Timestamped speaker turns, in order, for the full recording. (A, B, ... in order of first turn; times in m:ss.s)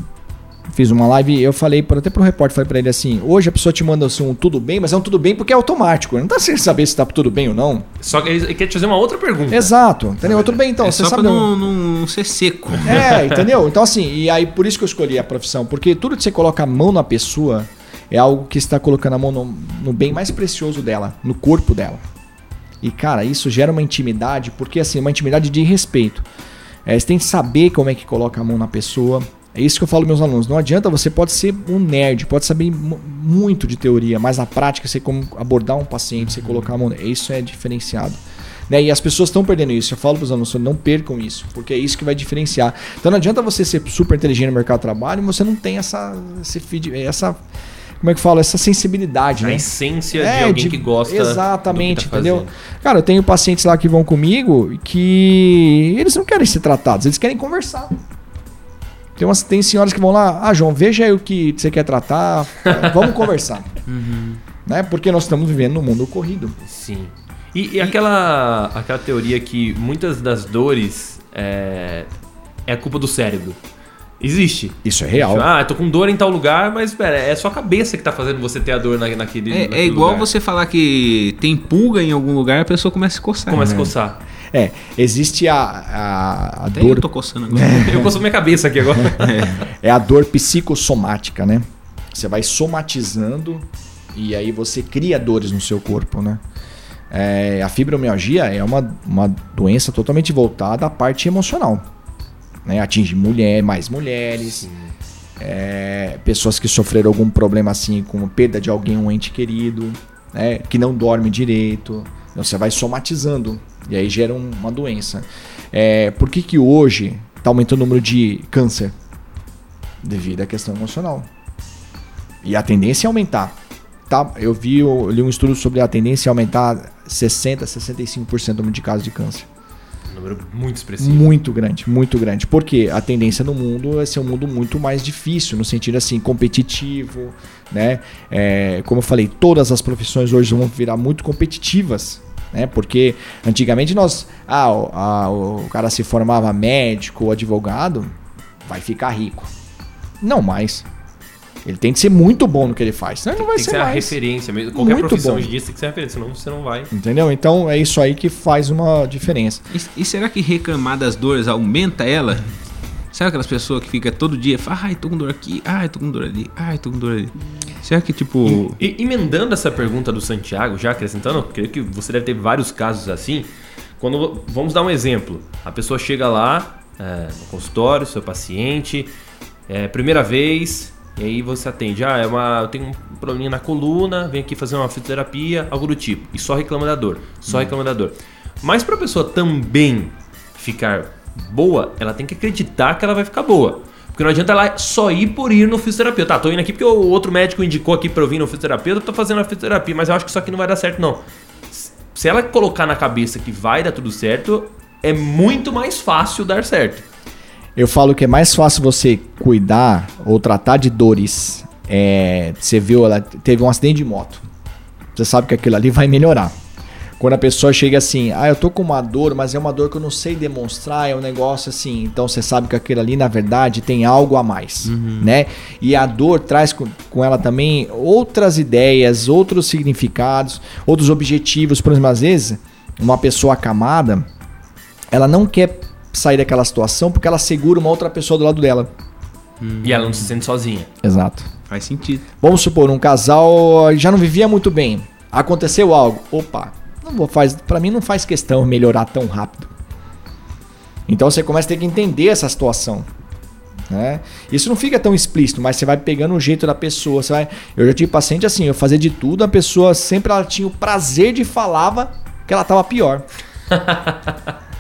0:00.7-0:07.9 A
0:08.0-0:09.7 B
0:09.5-0:11.5 A
0:10.2-0:10.5 B
0:10.8-0:13.1 C
0:12.8-0:22.0 A
0:12.9-0:13.2 B
0:22.8-0:26.3 A
0:26.8-0:47.4 A
0:36.2-0:36.6 C
0:48.0-0:58.0 A
0:49.4-0:52.5 B
0:59.2-1:03.7 A
1:02.7-1:03.0 B
1:03.9-1:04.4 C
1:04.7-1:06.6 A
1:06.6-1:12.1 B
1:12.7-1:13.6 B
1:14.2-1:20.3 B
1:14.8-1:15.5 A
1:19.5-1:23.9 C
1:23.5-1:24.2 B
1:23.6-1:23.9 A
1:24.5-1:28.1 A
1:26.7-1:28.0 C
1:27.7-1:29.4 B
1:29.2-1:29.6 C
1:29.6-1:36.4 A
1:37.1-1:41.9 A
1:42.6-1:44.7 A
1:44.4-1:44.9 B
1:45.4-1:58.9 A
2:00.0-2:01.3 A
2:02.4-2:03.6 A
2:04.1-2:09.5 A
2:10.1-2:11.3 B
2:11.0-2:28.1 A
2:28.7-2:29.5 A
2:30.2-2:30.9 A
2:31.6-2:34.2 A
2:33.4-2:36.9 B
2:34.7-2:35.5 A
2:36.9-2:39.6 A
2:39.7-2:42.5 C
2:43.1-2:48.8 C
2:48.5-2:59.1 B
2:59.7-3:27.0 B
3:27.8-3:34.4 A
3:35.2-3:36.6 A
3:37.2-3:54.3 A
3:44.8-3:45.3 C
3:55.1-3:58.9 A
3:59.6-4:00.3 C
3:59.8-4:00.9 B
4:01.0-4:01.5 A
4:01.7-4:02.3 C
4:02.4-4:09.7 A
4:11.1-4:13.1 A
4:13.9-4:23.2 A
4:23.7-4:24.4 B